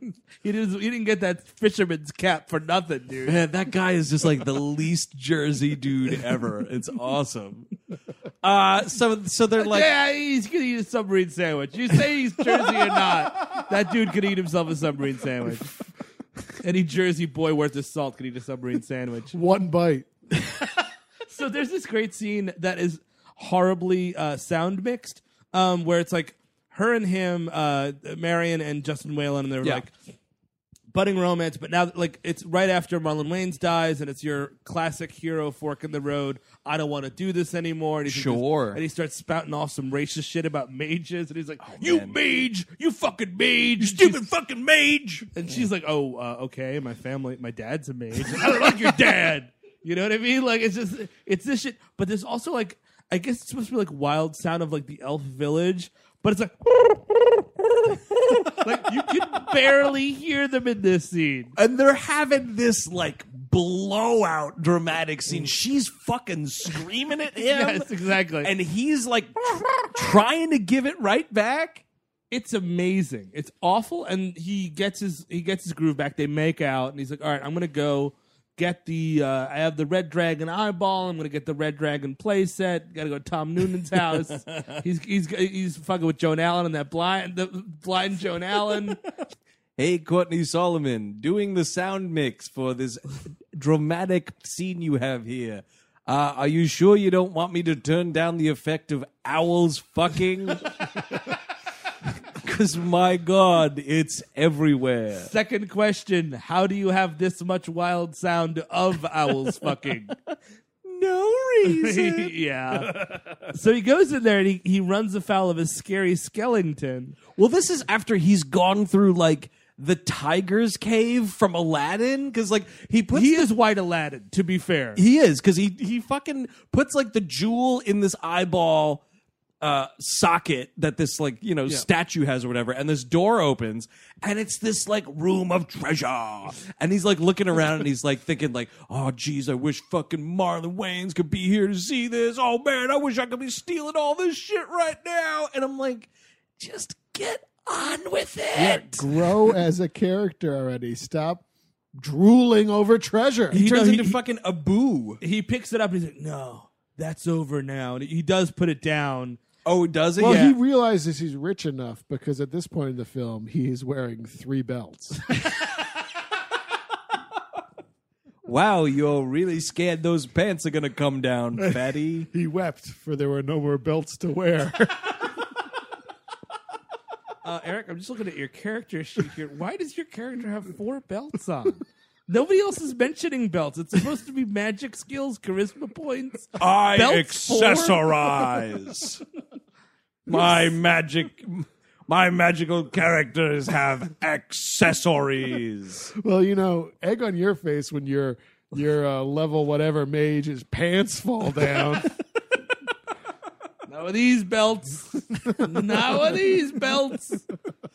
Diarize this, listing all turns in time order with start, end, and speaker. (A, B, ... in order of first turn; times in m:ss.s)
0:00.4-0:03.4 A
0:03.3-0:07.7 B
0:08.4-0:09.9 B
0:09.6-0:15.7 A
0:16.6-0:19.4 A
0:19.3-0:20.1 C
0:21.3-0:29.9 A
0:30.9-0:44.2 A
0:38.1-0:38.8 B
0:41.6-0:42.2 B
0:43.8-0:45.3 B
0:45.4-1:01.5 A
1:01.6-1:07.9 B
1:07.4-1:08.5 A
1:08.4-1:11.8 B
1:12.3-1:29.0 A
1:29.8-1:40.7 B
1:42.4-1:45.3 B
1:45.2-1:50.2 A
1:50.8-1:52.8 B
1:51.6-1:57.2 A
1:57.4-2:03.5 B
2:03.1-2:05.0 A
2:05.0-2:09.0 B
2:09.6-2:29.1 B
2:28.6-2:31.4 C
2:32.0-2:33.6 C
2:33.5-2:34.2 A
2:33.5-2:35.2 B
2:35.2-2:39.4 A
2:39.6-2:40.5 B
2:40.2-2:45.3 C
2:40.2-2:40.5 A
2:48.4-2:52.3 B
2:51.6-2:55.3 C
2:57.4-3:08.1 A
3:06.6-3:09.2 B
3:10.3-3:16.1 B
3:16.2-3:22.1 C
3:23.9-3:27.4 A